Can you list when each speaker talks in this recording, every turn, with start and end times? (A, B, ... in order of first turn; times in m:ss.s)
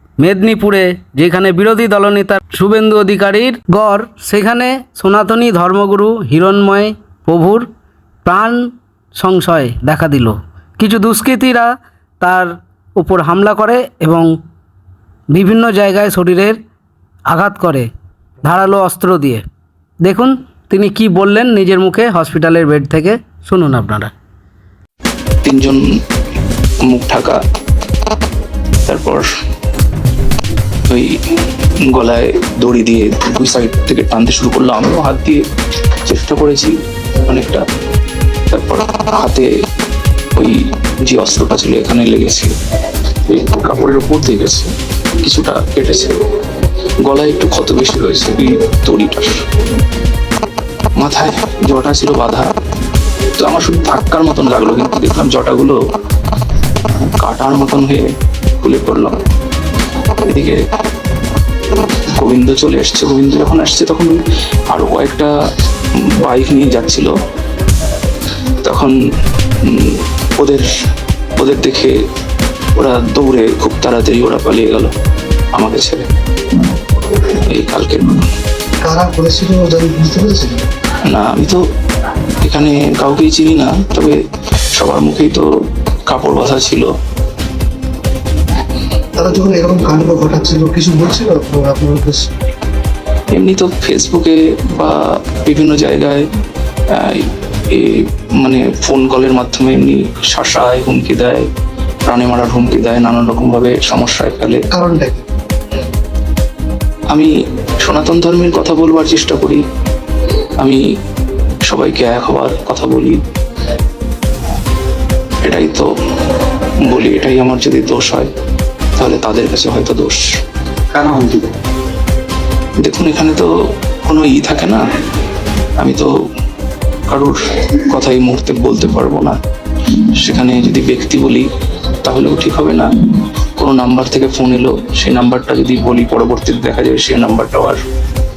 0:00.2-0:07.7 A
0:08.2-0:14.3 A
0:15.3-0:16.6 A
0:17.3-0:17.9 A
0:18.4-0:19.4 A
0:20.0-0:24.1 A
0:25.4-0:25.9 B
0:26.9-0:27.4 B
0:28.9-0:29.2 B
0:30.9-0:31.2 B
0:31.9-0:35.4 B
0:36.0-0:37.6 B
0:38.5-0:39.5 B
0:40.4-0:42.5 B
0:43.3-0:44.7 B
0:45.2-0:46.2 B
0:47.0-0:49.3 B
0:51.0-0:52.5 B
0:53.4-0:55.8 B
0:56.9-0:58.1 B
0:58.6-0:59.2 B
1:00.3-1:00.6 B
1:02.1-1:04.2 B
1:04.7-1:05.3 B
1:06.1-1:07.1 B
1:08.6-1:08.9 B
1:09.6-1:10.7 B
1:11.4-1:11.9 B
1:12.8-1:14.9 B
1:15.5-1:16.1 B
1:17.1-1:18.2 B
1:18.8-1:20.6 C
1:21.1-1:21.6 B
1:22.4-1:24.2 B
1:24.8-1:25.5 B
1:26.1-1:26.9 B
1:29.2-1:32.3 C
1:33.3-1:36.2 B
1:36.9-1:41.5 B
1:42.0-1:44.6 B
1:44.7-1:45.2 C
1:47.8-1:49.6 B
1:51.6-1:53.2 B
1:55.4-1:55.9 B
1:56.8-1:58.3 B
1:59.0-2:00.2 B
2:01.1-2:01.3 C
2:02.8-2:03.5 B
2:04.0-2:04.8 B
2:05.8-2:06.1 B
2:07.1-2:09.4 B
2:10.0-2:17.8 B